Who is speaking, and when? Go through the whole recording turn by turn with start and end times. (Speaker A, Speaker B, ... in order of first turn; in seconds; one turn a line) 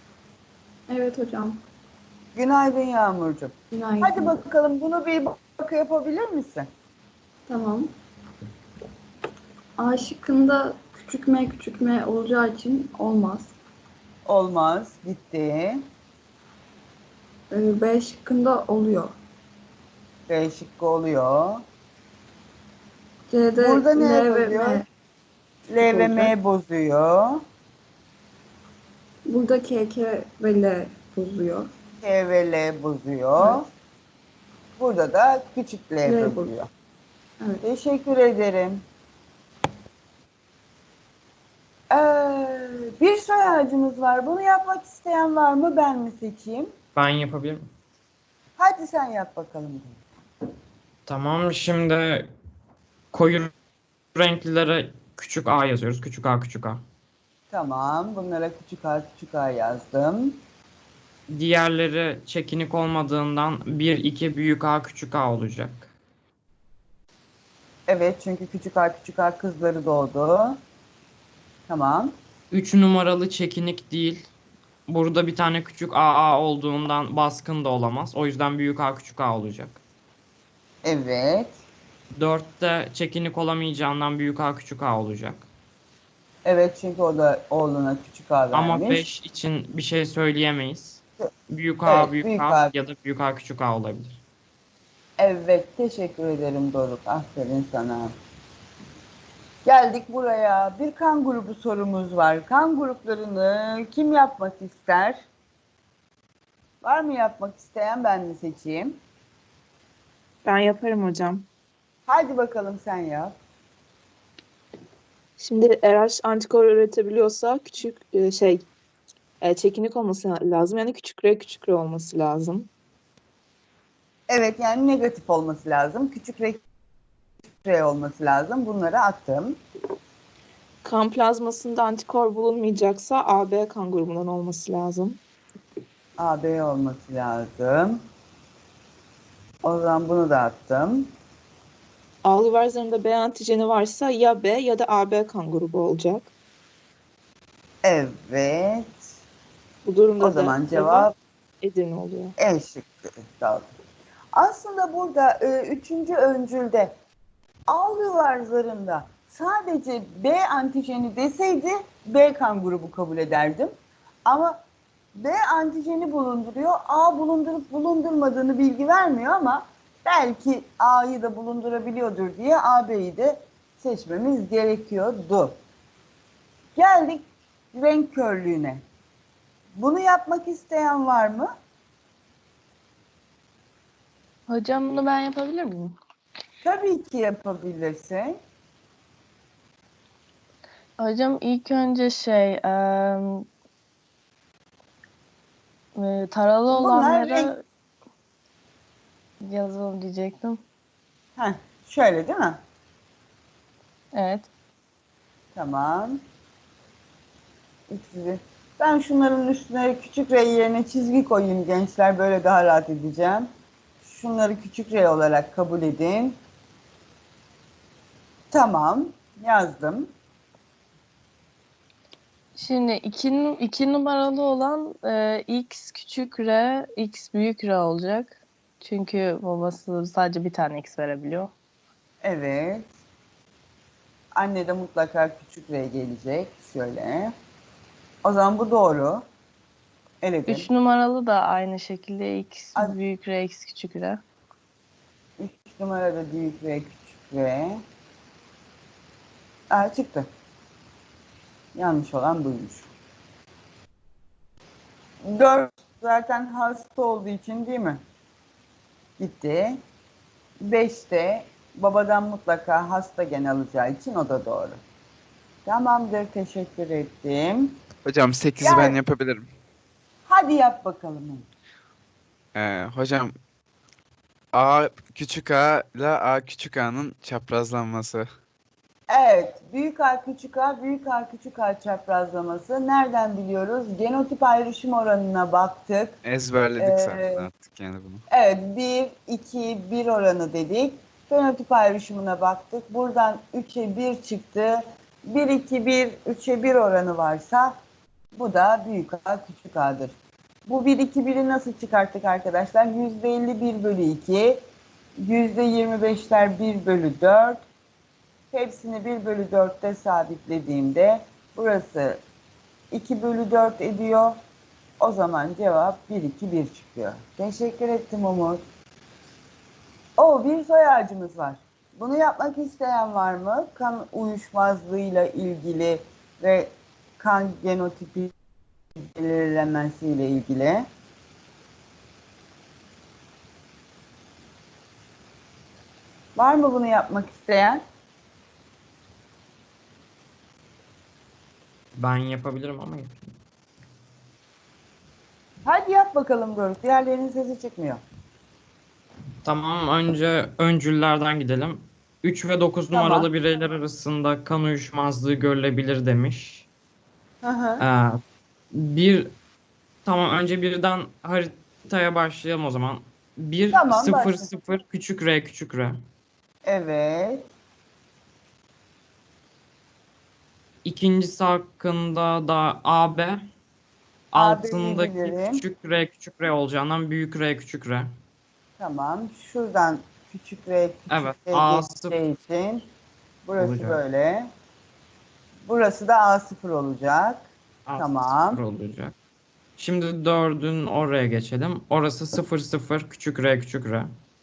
Speaker A: 0.9-1.6
Speaker B: 2.3-6.7
Speaker A: 3.7-4.4
Speaker A: 7.5-7.9
Speaker A: 9.8-13.5
Speaker B: 14.2-15.8
Speaker A: 17.5-19.1
Speaker B: 20.3-21.6
Speaker A: 23.3-24.9
Speaker B: 23.6-24.8
Speaker B: 25.7-27.4
Speaker A: 25.8-26.3
Speaker A: 29.2-31.7
Speaker B: 32.0-33.7
Speaker A: 33.4-33.6
Speaker B: 34.8-36.7
Speaker A: 36.0-36.5
Speaker B: 37.6-38.8
Speaker B: 41.9-46.7
Speaker C: 46.9-47.6
Speaker B: 48.6-50.0
Speaker C: 51.0-52.3
Speaker C: 53.1-53.5
Speaker C: 54.1-56.8
Speaker B: 57.5-60.4
Speaker C: 61.3-65.9
Speaker B: 67.9-70.6
Speaker B: 71.7-72.1
Speaker C: 72.5-74.2
Speaker C: 74.9-79.8
Speaker B: 80.8-81.6
Speaker C: 82.2-85.5
Speaker B: 86.4-89.1
Speaker C: 88.5-94.2
Speaker B: 91.8-92.7
Speaker B: 95.2-98.1
Speaker B: 99.6-105.3
Speaker B: 106.8-109.0
Speaker D: 110.4-111.5
Speaker B: 112.1-113.3
Speaker D: 115.4-118.6
Speaker D: 119.4-122.7
Speaker B: 124.3-126.6
Speaker B: 127.6-129.6
Speaker D: 130.8-135.2
Speaker B: 136.2-138.0
Speaker B: 139.6-141.1
Speaker D: 142.2-146.3
Speaker B: 147.8-149.1
Speaker D: 149.8-151.1
Speaker B: 150.2-151.1
Speaker D: 151.6-152.3
Speaker B: 152.4-153.7
Speaker B: 154.3-156.9
Speaker B: 157.7-163.7
Speaker B: 164.2-164.6
Speaker B: 165.1-175.6
Speaker B: 176.8-178.8
Speaker B: 179.8-181.5
Speaker E: 184.5-185.9
Speaker B: 186.6-188.4
Speaker E: 191.0-193.5
Speaker E: 195.9-197.6
Speaker B: 196.7-197.5
Speaker E: 199.4-200.6
Speaker B: 201.4-202.6
Speaker E: 204.1-204.5
Speaker B: 205.5-206.2
Speaker B: 207.9-213.5
Speaker B: 214.0-216.4
Speaker B: 218.5-220.1
Speaker E: 222.6-231.5
Speaker B: 232.2-232.9
Speaker B: 234.3-237.3
Speaker B: 238.2-239.2
Speaker B: 240.2-240.7
Speaker E: 240.5-244.2
Speaker B: 245.4-247.8
Speaker B: 249.7-250.3
Speaker B: 251.7-252.9
Speaker B: 255.2-258.0
Speaker B: 259.2-259.8
Speaker B: 260.6-264.8
Speaker B: 265.6-267.8
Speaker F: 268.0-269.5
Speaker B: 268.6-269.0
Speaker B: 270.3-271.4
Speaker F: 272.5-273.3
Speaker F: 274.5-278.3
Speaker B: 279.1-286.2
Speaker F: 286.2-288.2
Speaker B: 286.8-287.4
Speaker B: 288.3-297.8
Speaker B: 298.3-304.6
Speaker B: 305.2-307.6
Speaker B: 308.5-312.2
Speaker B: 312.9-314.4
Speaker B: 315.0-318.6
Speaker B: 320.2-328.3
Speaker B: 329.0-330.9
Speaker B: 336.4-337.8
Speaker C: 341.9-343.3
Speaker B: 345.6-348.0
Speaker C: 349.4-356.7
Speaker B: 352.9-353.3
Speaker B: 357.4-357.8
Speaker C: 357.8-359.3
Speaker C: 360.0-365.9
Speaker B: 363.7-364.5
Speaker B: 366.6-367.5
Speaker C: 370.8-373.4
Speaker C: 374.3-378.1
Speaker B: 374.3-375.6
Speaker B: 378.8-382.9
Speaker C: 381.1-382.2
Speaker B: 383.4-384.5
Speaker C: 383.6-384.0
Speaker B: 385.6-388.6
Speaker C: 387.9-389.1
Speaker C: 389.8-394.1